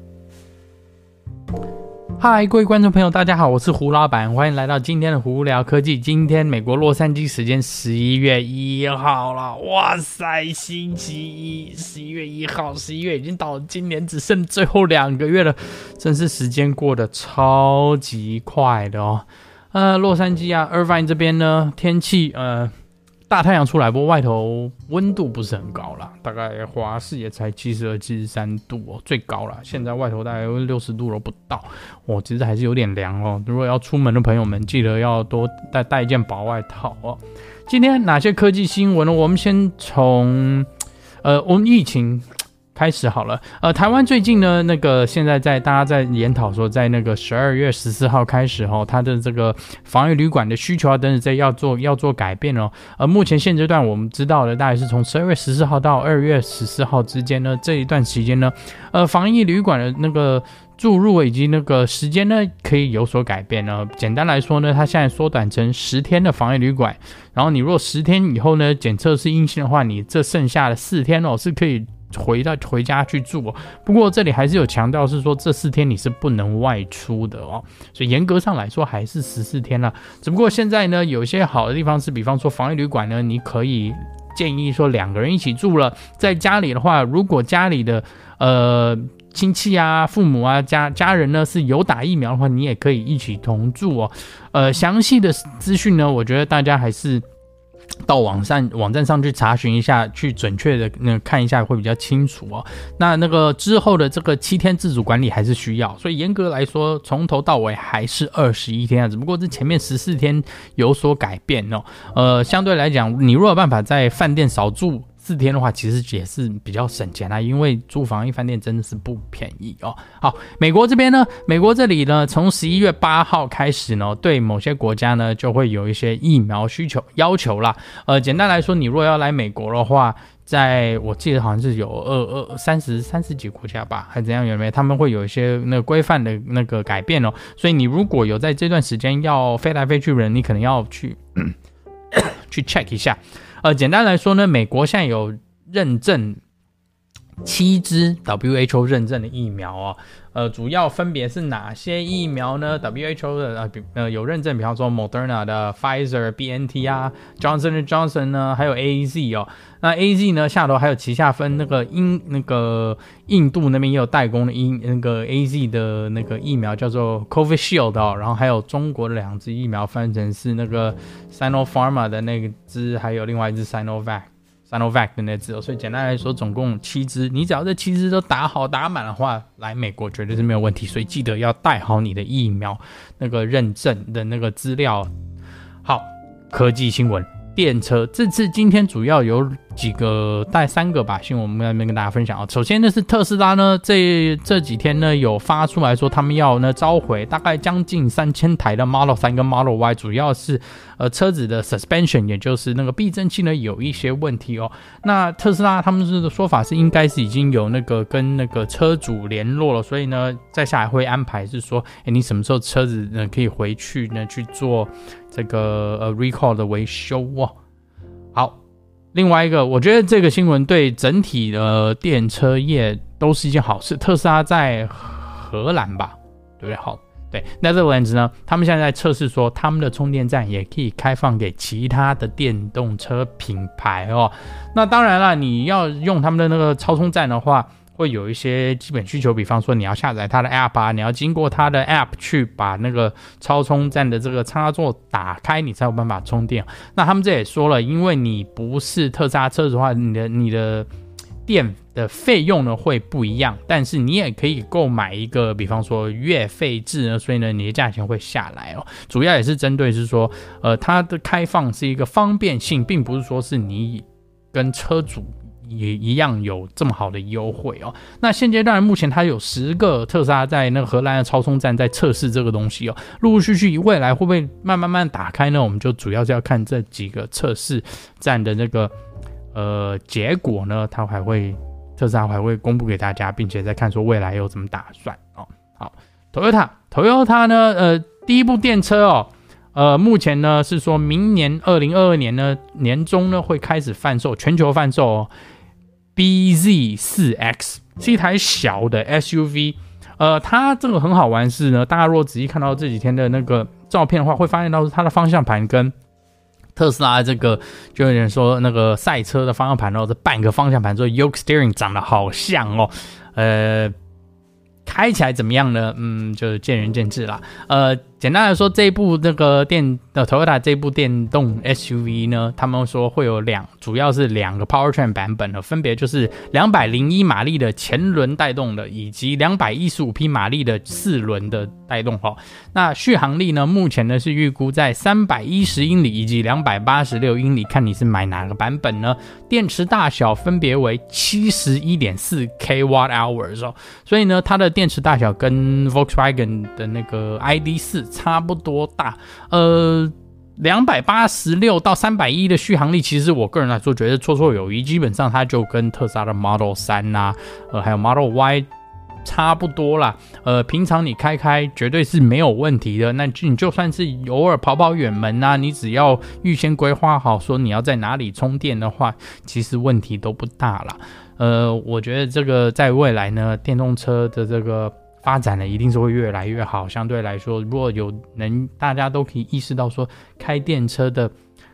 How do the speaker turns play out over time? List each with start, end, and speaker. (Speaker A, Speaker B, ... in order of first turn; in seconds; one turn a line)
Speaker A: 2.2-22.7
Speaker A: 23.3-40.7
Speaker A: 41.2-97.2
Speaker A: 98.1-141.6
Speaker A: 142.1-146.4
Speaker A: 147.4-185.1
Speaker A: 185.8-217.6
Speaker A: 219.1-250.9
Speaker A: 251.5-278.9
Speaker A: 279.5-295.3
Speaker A: 296.1-305.9
Speaker A: 306.8-313.9
Speaker A: 314.9-358.7
Speaker A: 359.2-381.3